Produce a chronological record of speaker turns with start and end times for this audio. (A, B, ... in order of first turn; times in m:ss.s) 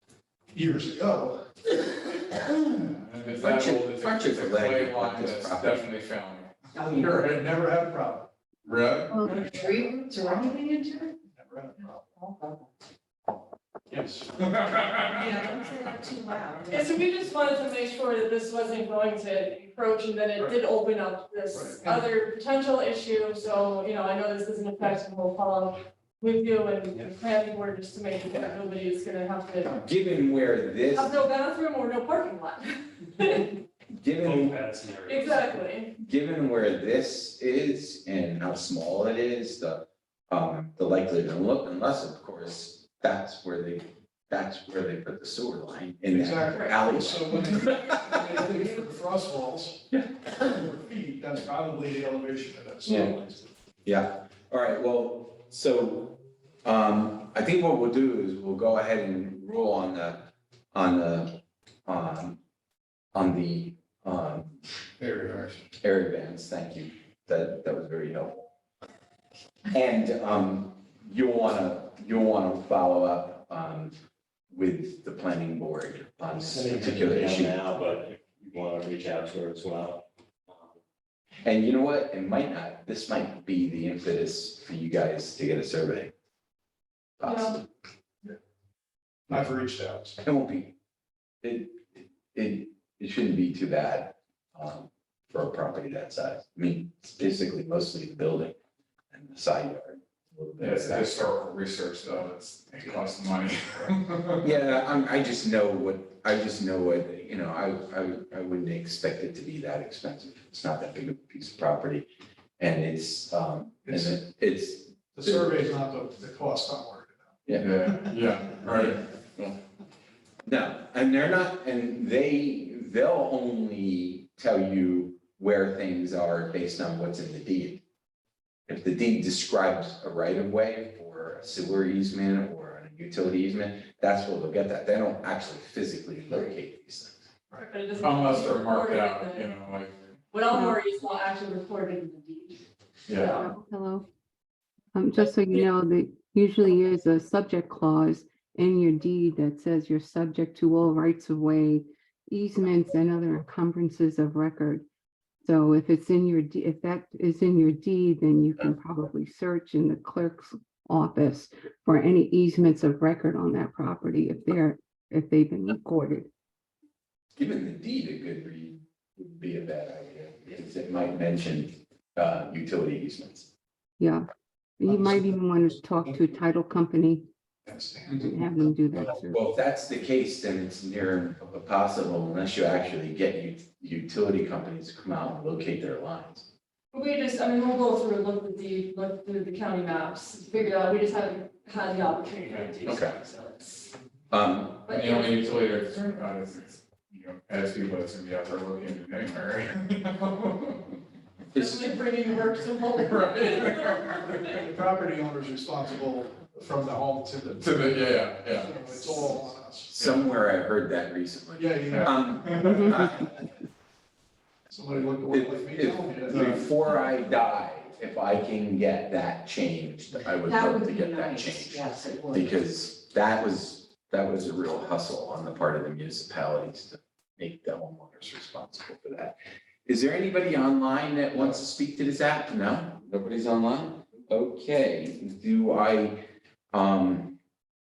0:00.5-0:01.4 A
0:02.3-0:02.8 B
0:02.9-0:07.4 C
0:03.4-0:05.9 B
0:06.8-0:07.1 D
0:06.9-0:08.3 A
0:08.7-0:09.2 C
0:09.1-0:09.5 E
0:09.2-0:11.1 D
0:11.4-0:12.0 A
0:12.2-0:12.7 D
0:13.9-0:14.3 A
0:14.4-0:16.0 C
0:15.1-0:16.9 D
0:16.7-0:29.8 F
0:21.5-0:22.0 A
0:29.7-0:31.2 B
0:30.9-0:33.5 F
0:33.9-0:34.6 B
0:34.2-0:35.6 G
0:35.0-0:35.9 F
0:36.0-0:48.4 B
0:46.1-0:49.8 A
0:49.9-0:50.5 B
0:50.4-0:53.5 A
0:53.8-1:02.4 B
1:03.1-1:04.6 B
1:05.0-1:05.6 A
1:05.8-1:08.5 B
1:09.7-1:13.9 B
1:14.5-1:17.7 B
1:16.3-1:20.8 G
1:21.4-1:26.1 B
1:27.2-1:27.6 B
1:27.2-1:27.6 F
1:29.3-1:30.2 A
1:30.2-1:30.8 B
1:31.4-1:38.6 B
1:39.1-1:41.3 B
1:40.6-1:44.6 C
1:44.4-1:52.1 B
1:52.6-1:55.7 B
1:53.9-1:54.2 A
1:55.2-1:57.4 A
1:57.5-1:57.7 B
1:57.6-1:59.6 C
2:00.4-2:07.8 B
2:08.7-2:17.3 B
2:17.6-2:19.5 F
2:18.0-2:20.0 C
2:20.3-2:23.5 F
2:20.5-2:20.8 E
2:23.1-2:23.4 C
2:23.3-2:24.1 E
2:25.0-2:34.9 E
2:25.2-2:25.7 F
2:35.4-2:46.3 E
2:47.4-2:53.5 B
2:54.0-2:54.3 E
2:54.8-2:57.3 E
2:54.9-2:55.1 A
2:57.7-2:58.5 A
2:58.1-2:58.3 C
2:58.2-2:59.4 E
2:59.3-3:06.5 B
3:06.9-3:13.9 F
3:12.4-3:13.0 C
3:12.8-3:13.2 B
3:14.3-3:14.9 B
3:14.8-3:15.4 F
3:14.9-3:20.9 C
3:21.5-3:21.9 B
3:21.6-3:24.6 F
3:23.0-3:24.5 C
3:24.6-3:30.0 A
3:27.6-3:28.8 C
3:29.9-3:33.3 B
3:30.0-3:30.3 C
3:31.6-3:32.9 A
3:31.9-3:32.8 C
3:32.6-3:32.9 E
3:34.7-3:36.7 A
3:35.3-3:49.4 B
3:40.4-3:42.5 D
3:49.9-3:56.2 B
3:56.7-3:57.4 B